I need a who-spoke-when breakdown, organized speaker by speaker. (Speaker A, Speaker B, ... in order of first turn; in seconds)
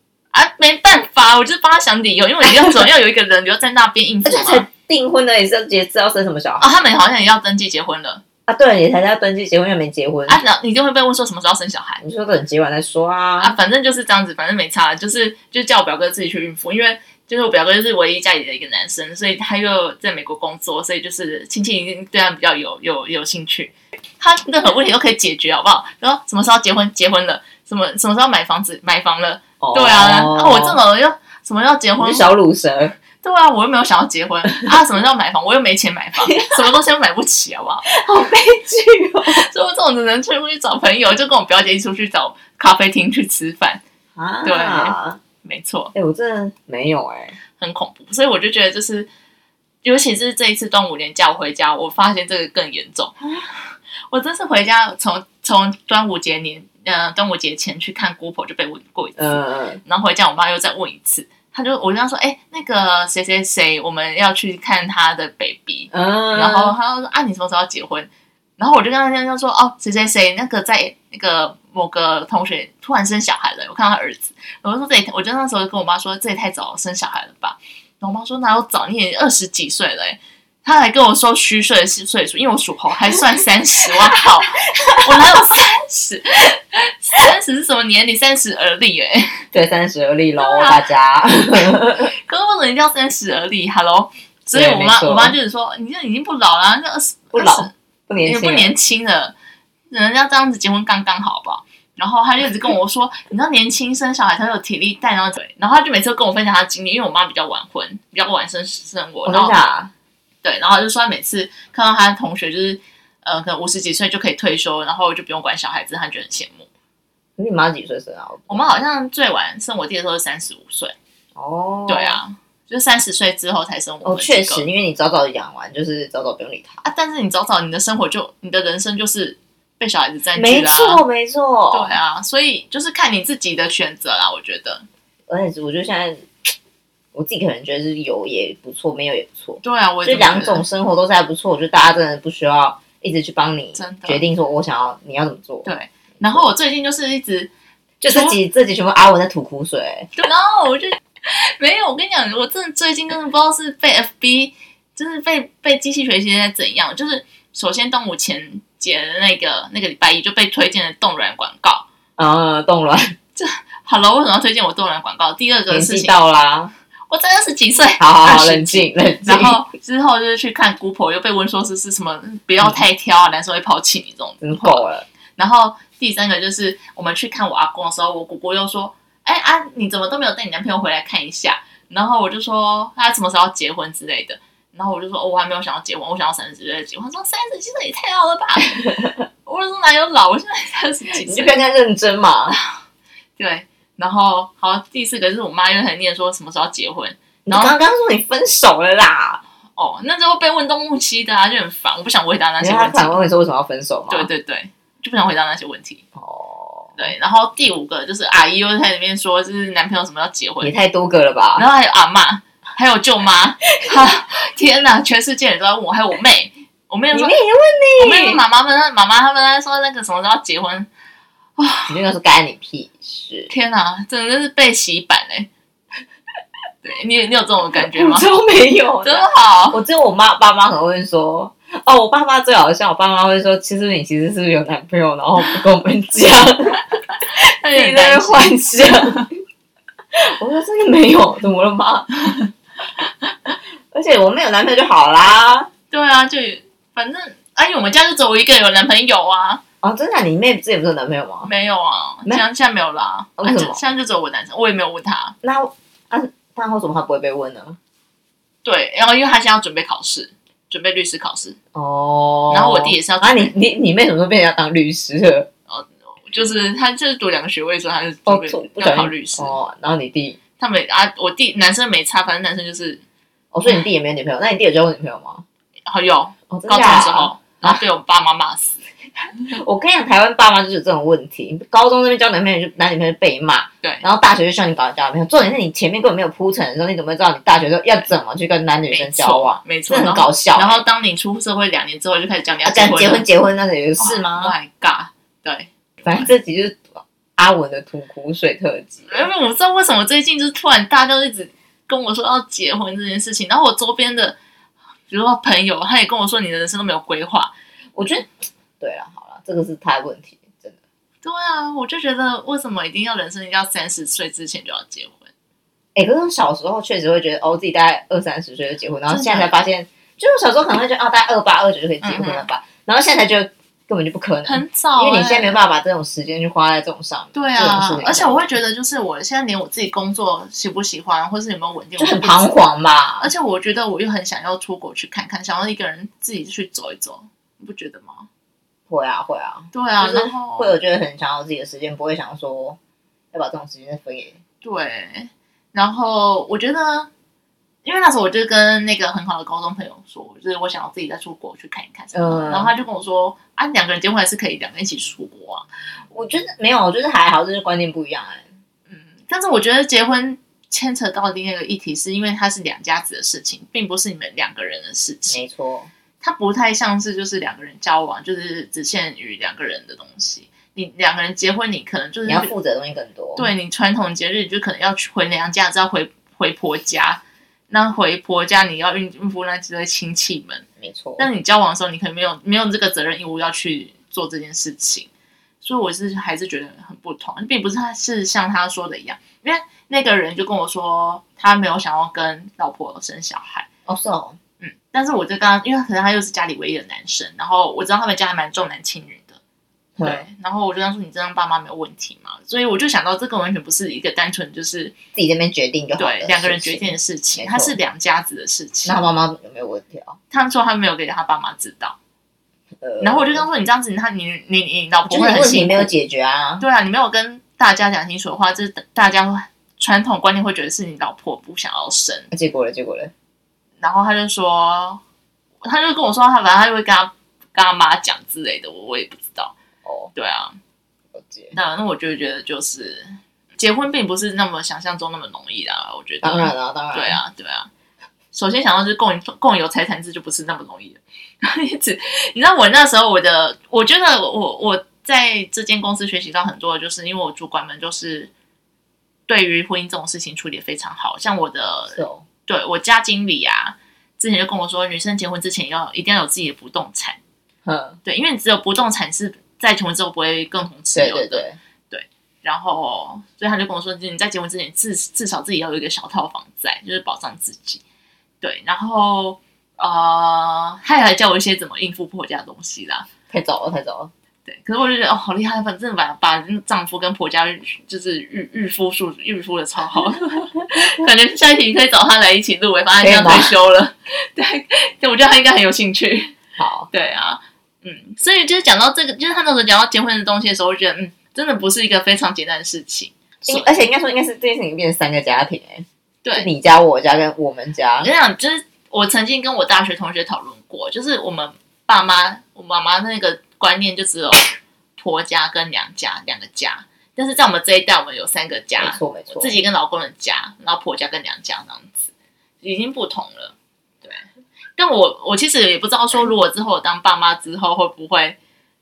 Speaker A: 0.3-4.7, 6.6-8.2, 10.3-12.0, 13.4-32.3, 33.2-37.9, 39.3-43.8, 44.4-45.9, 47.6-49.1, 49.8-53.1, 54.1-89.4, 90.4-90.8, 92.1-97.7, 98.2-99.3, 99.9-109.7, 110.4-116.7, 118.5-121.0, 121.9-124.7, 126.8-131.0, 131.7-134.8, 139.6-140.7, 143.8-144.2, 145.7-147.5, 148.1-148.4, 150.2-161.9, 163.4-166.2, 167.1-174.9, 175.4-188.9, 189.5-191.6, 193.4-197.8, 199.8-203.2, 204.1-206.0, 207.0-210.8, 211.6-217.4, 218.0-220.9, 221.6-222.0, 223.5-225.5, 226.8-228.3, 229.0-229.8, 237.6-239.2, 245.9-249.6, 251.4-255.3, 258.6-261.6, 262.5-263.5, 265.7-269.6, 270.6-273.0, 275.9-278.8, 288.9-293.3, 294.0-296.3, 299.1-304.4, 305.1-307.5, 311.2-315.3, 319.1-319.7, 322.0-322.5, 324.4-325.6, 327.4-332.6, 333.2-338.3, 339.7-340.7, 344.6-347.1, 347.9-355.7, 358.9-365.4, 366.2-372.5, 373.4-380.6, 381.2-385.1, 385.6-393.7, 394.6-399.4, 400.0-405.0, 406.0-409.0, 410.3-412.0, 413.0-415.9, 416.6-422.3, 423.8-425.0, 425.6-429.5, 430.1-430.6, 431.6-437.7, 438.3-448.3, 449.3-457.2, 458.1-467.8, 468.4-473.1, 474.5-486.4, 486.9-493.7, 496.2-496.5, 498.0-512.1, 512.6-514.2, 514.8-518.4
Speaker B: 4.2-6.8, 8.5-10.4, 12.0-13.6, 29.6-30.8, 32.0-33.0, 36.3-36.6, 37.9-39.4, 44.2-45.2, 45.9-47.4, 53.2-53.5, 59.2-59.8, 65.9-66.8, 89.5-92.1, 94.5-95.4, 97.3-98.7, 109.2-109.9, 117.4-118.8, 121.4-122.2, 124.0-126.8, 130.3-132.0, 135.3-136.3, 137.1-145.7, 148.0-150.1, 162.2-163.1, 165.7-166.7, 168.0-169.6, 174.4-175.1, 191.2-192.6, 197.5-199.4, 202.6-204.3, 206.2-207.1, 210.6-211.7, 217.1-218.4, 221.9-223.5, 227.7-237.0, 237.7-239.3, 240.2-242.4, 243.9-245.7, 249.8-251.5, 253.4-253.8, 255.4-257.8, 261.7-265.5, 268.3-270.4, 273.5-275.4, 276.5-277.8, 279.3-290.9, 292.6-294.6, 296.0-299.3, 307.9-310.8, 315.9-328.5, 332.0-333.3, 338.9-342.8, 343.3-344.4, 352.1-352.7, 356.1-358.5, 365.3-365.9, 372.3-373.5, 380.8-381.3, 393.9-394.4, 400.0-400.2, 405.1-407.8, 408.9-410.2, 412.8-413.5, 415.1-416.6, 422.3-423.1, 429.8-430.1, 431.1-431.6, 436.2-437.2, 451.9-452.2, 457.7-458.0, 460.9-461.6, 473.3-474.1, 483.0-483.6, 486.6-486.9, 493.5-498.1, 508.8-509.6